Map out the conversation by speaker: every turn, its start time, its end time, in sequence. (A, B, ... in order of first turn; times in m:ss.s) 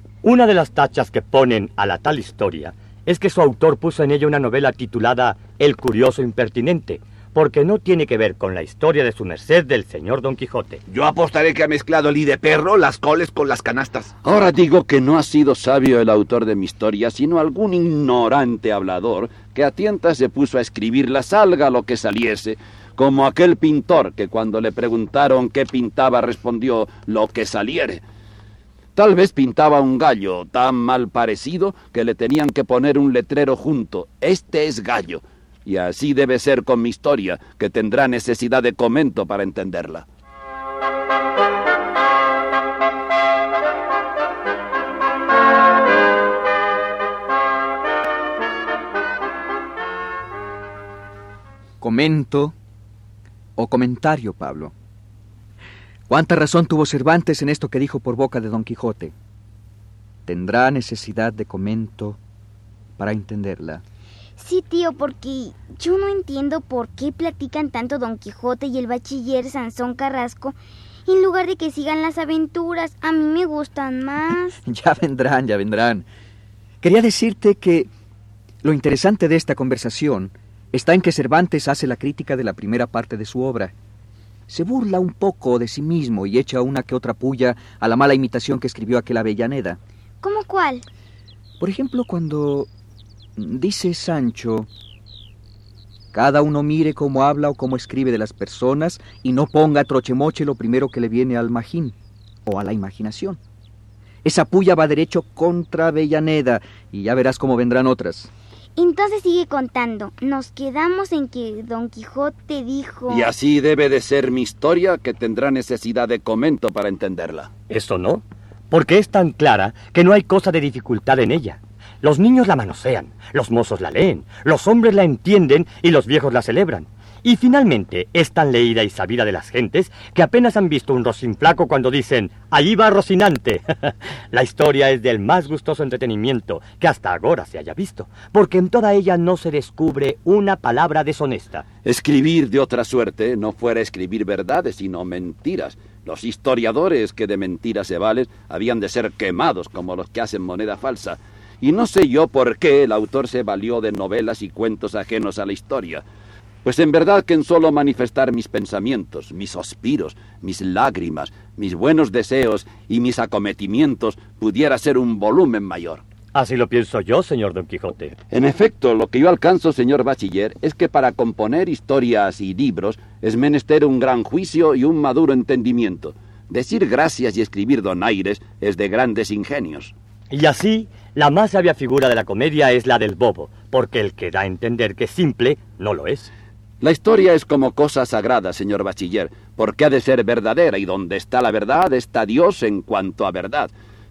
0:00.2-0:10.8 A
0:10.9-0:14.1 B
0:14.2-0:28.0 C
0:29.0-0:40.0 C
0:51.8-0:52.5 D
0:53.6-0:54.7 D
0:56.1-0:59.1 D
1:00.3-1:02.2 D
1:03.0-1:03.8 D
1:04.4-1:14.6 E
1:14.6-1:16.0 D
1:16.8-1:17.9 D
1:18.6-1:23.7 D
1:24.5-1:29.8 D
1:30.2-1:30.8 E
1:31.6-1:32.7 D
1:33.4-1:34.7 D
1:36.1-1:41.9 D
1:42.4-1:43.4 D
1:44.2-1:48.3 D
1:48.8-1:53.3 E
1:53.1-1:57.5 C
1:57.7-2:21.6 A
2:21.8-2:36.0 C
2:36.6-2:46.0 C
2:46.3-2:48.2 A
2:48.3-2:59.9 C
3:00.3-3:06.3 A
3:06.8-3:13.7 C